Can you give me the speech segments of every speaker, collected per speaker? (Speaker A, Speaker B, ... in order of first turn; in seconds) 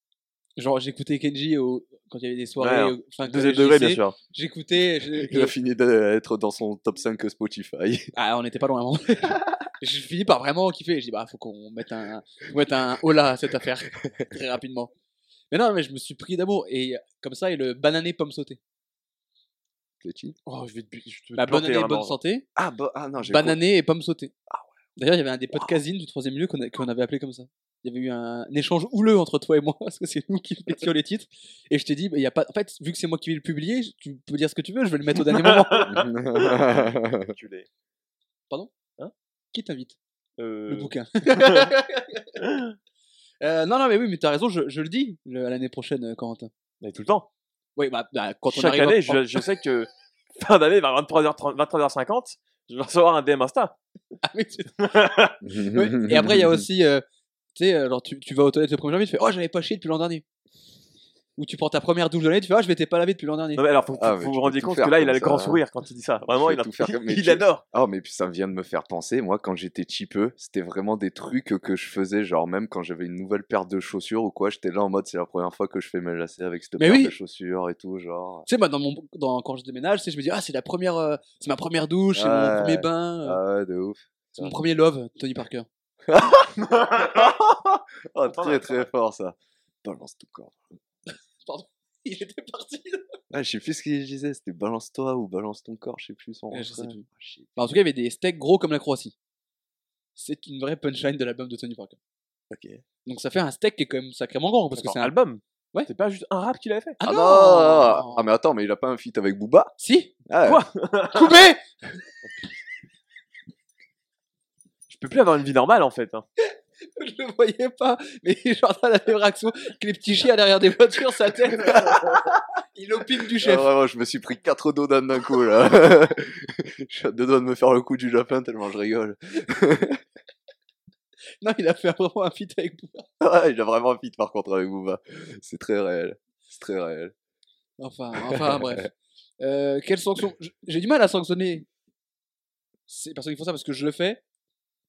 Speaker A: 0.6-5.5, 8.1-14.9, 15.5-18.6, 21.4-22.4, 23.2-24.3, 25.0-36.1, 39.5-40.0, 40.7-42.3, 43.4-46.5, 47.8-49.4, 54.2-54.9, 55.7-57.0, 57.5-60.2, 61.4-63.6, 76.8-77.1, 78.5-83.4, 84.4-85.7, 91.4-93.1, 96.5-97.0, 97.5-99.1, 100.2-102.0, 103.0-105.1, 107.0-108.2, 109.8-110.1, 111.1-111.6, 116.4-123.7, 131.4-133.1, 137.8-141.7, 142.9-144.2
Speaker B: 2.6-4.2, 20.4-22.2, 35.3-37.7, 40.4-41.7, 42.4-42.8, 46.8-47.3, 48.5-53.8, 54.8-55.4, 63.5-67.6, 86.7-87.3, 88.2-88.9, 104.8-107.0, 110.4-111.4, 114.9-116.2
Speaker C: 5.1-8.1, 20.0-20.4, 22.6-23.6, 35.9-37.3, 55.4-56.6, 63.9-65.6, 66.4-78.5, 82.1-84.5, 86.1-90.7, 93.3-97.5, 102.5-102.8, 107.0-109.7, 110.2-110.6, 121.6-122.4, 123.3-130.0, 133.2-137.1, 138.3-138.6